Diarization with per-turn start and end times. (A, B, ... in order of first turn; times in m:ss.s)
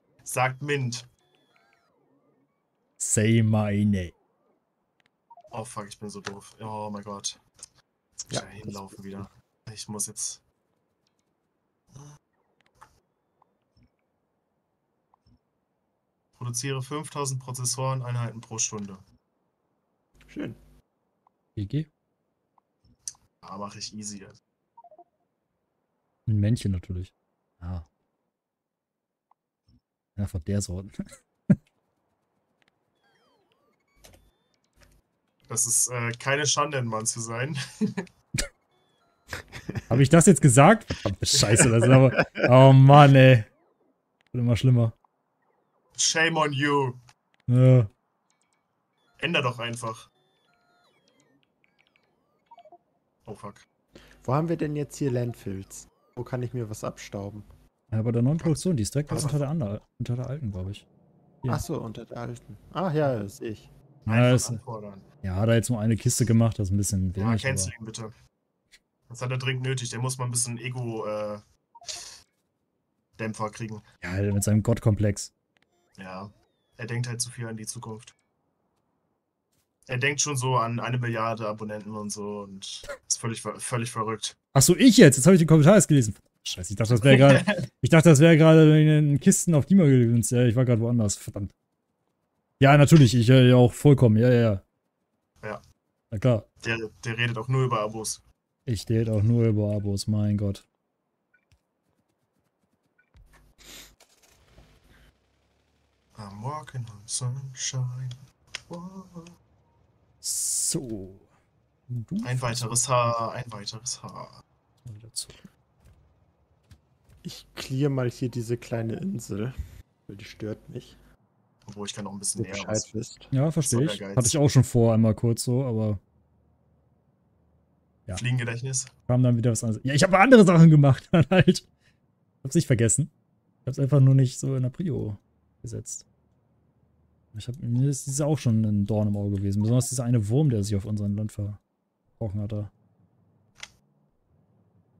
0:00.2-0:01.1 A
0:03.0-0:04.1 B
0:05.5-0:07.4 A
0:08.2-0:10.4 A
0:08.3-0:09.2 C
0:16.4-0:19.0 A
0:20.2-0:20.6 C
0:21.6-0:21.9 B
0:23.4-0:24.4 A
0:26.3-0:27.8 B
0:30.2-0:31.6 B
0:35.5-0:38.0 A
0:39.5-0:39.8 C
0:39.9-0:43.5 B
0:41.8-0:42.4 C
0:44.3-0:44.9 B
0:45.9-0:47.0 A
0:47.5-0:47.9 B
0:49.2-0:50.1 A
0:53.2-0:53.6 A
0:54.2-0:57.5 C
0:57.9-1:00.8 B
0:59.1-0:59.4 A
1:01.4-1:03.7 C
1:04.0-1:05.1 A
1:04.1-1:04.6 B
1:05.2-1:07.7 B
1:07.2-1:08.1 A
1:09.1-1:12.1 A
1:13.2-1:13.8 A
1:14.0-1:15.3 B
1:16.0-1:18.1 A
1:19.9-1:24.4 A
1:24.5-1:31.5 B
1:26.9-1:27.6 A
1:32.6-1:34.6 B
1:36.1-1:36.5 B
1:36.6-1:38.2 A
1:38.6-1:40.6 B
1:46.2-1:49.3 A
1:50.2-1:51.3 B
1:51.9-1:52.8 B
1:52.2-1:54.4 A
1:54.8-1:55.4 B
1:57.2-2:01.0 C
2:01.6-2:02.9 A
2:02.4-2:03.3 C
2:03.3-2:06.0 B
2:03.6-2:04.4 A
2:08.1-2:08.9 A
2:09.1-2:11.7 B
2:12.4-2:13.1 B
2:13.6-2:16.0 B
2:17.3-2:21.6 B
2:22.2-2:22.7 B